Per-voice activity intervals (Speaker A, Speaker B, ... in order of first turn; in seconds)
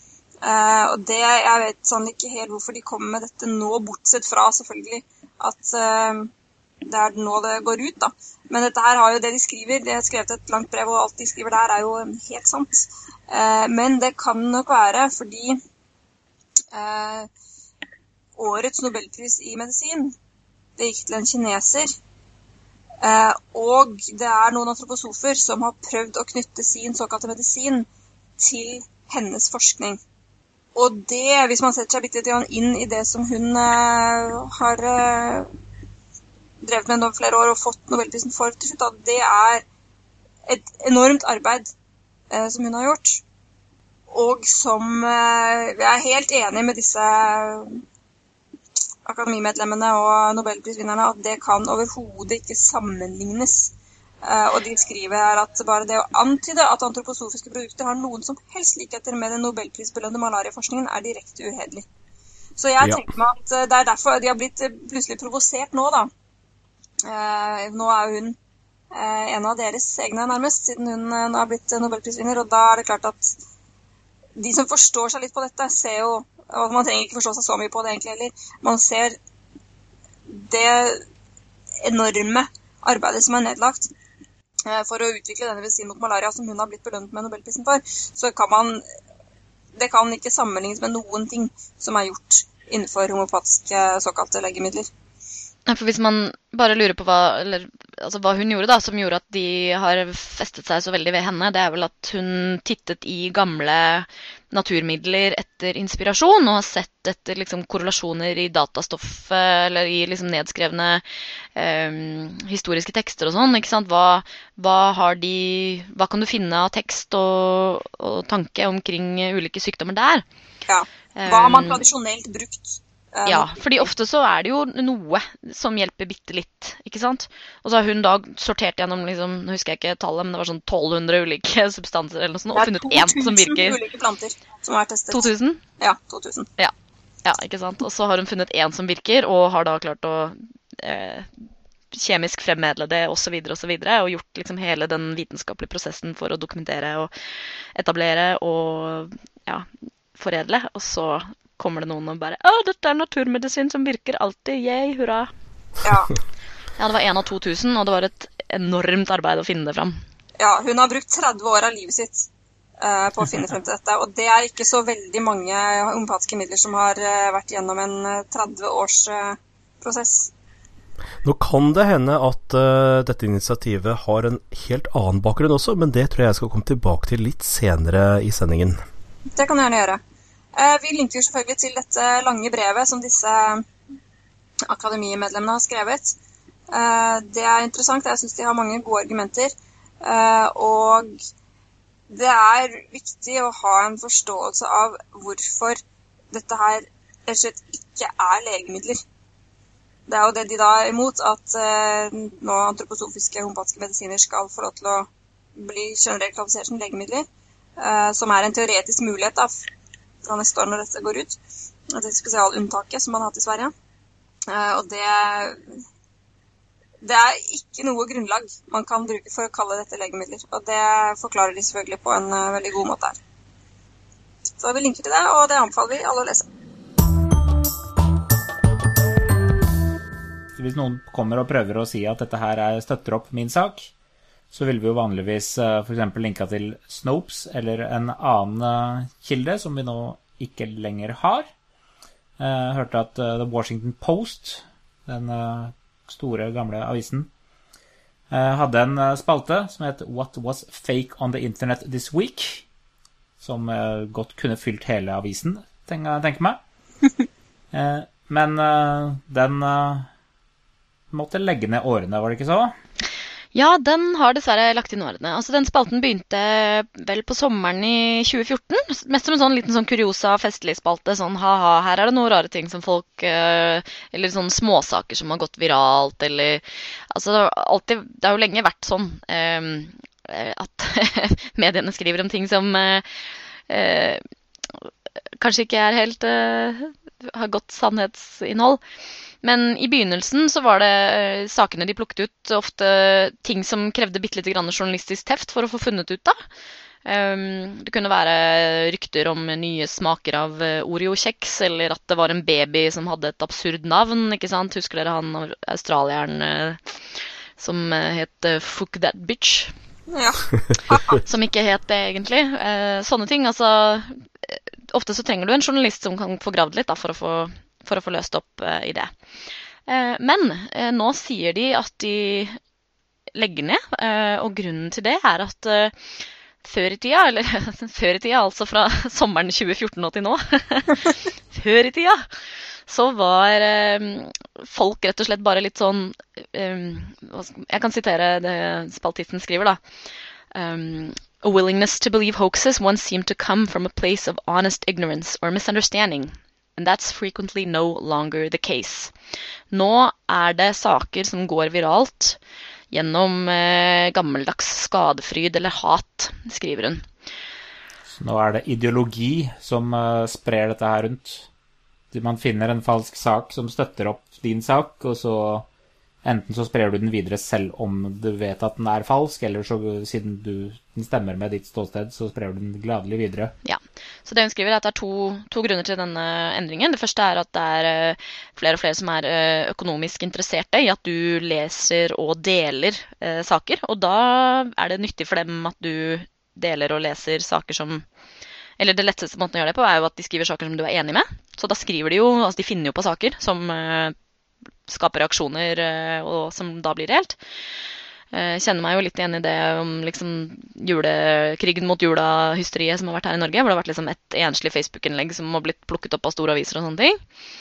Speaker A: 0.4-6.3, 6.8-15.6, 16.7-17.3, 18.4-20.1, 20.8-21.9, 23.0-27.9, 28.4-30.0, 30.7-35.5, 36.6-39.6, 40.5-41.7, 42.3-43.2, 44.1-47.8, 49.0-53.7, 54.2-61.8, 62.6-66.1, 67.0-68.4, 68.9-73.3, 74.4-79.2, 80.3-81.0, 81.8-83.9, 84.7-88.8, 89.8-94.9, 120.7-123.9, 132.5-136.5, 155.8-156.1, 160.4-162.3, 162.8-170.3, 179.3-180.0, 180.6-183.7, 184.7-186.1, 186.7-189.5, 190.0-191.2, 192.1-195.8, 196.3-199.0, 200.1-207.2, 207.8-209.5, 210.2-211.4, 211.9-213.7, 214.5-215.6, 217.0-223.2, 224.6-226.4, 310.1-311.2
Speaker B: 62.8-63.0, 171.2-178.8
Speaker C: 95.7-111.0, 111.5-120.2, 121.2-121.8, 123.2-133.8, 135.1-135.6, 137.2-147.1, 147.7-155.3, 156.8-159.9, 263.5-283.1, 283.7-288.8, 289.4-296.4, 297.1-309.7, 311.2-319.1, 319.9-322.6, 323.3-325.9, 326.6-339.8, 340.5-349.1, 349.7-352.4, 352.9-357.1, 373.6-388.0, 388.8-394.1, 394.9-397.4, 398.3-407.2
Speaker D: 230.6-233.9, 234.5-241.4, 242.4-247.3, 248.3-252.6, 253.4-256.6, 257.7-260.1, 261.1-262.7, 358.1-361.5, 362.1-365.6, 366.2-373.5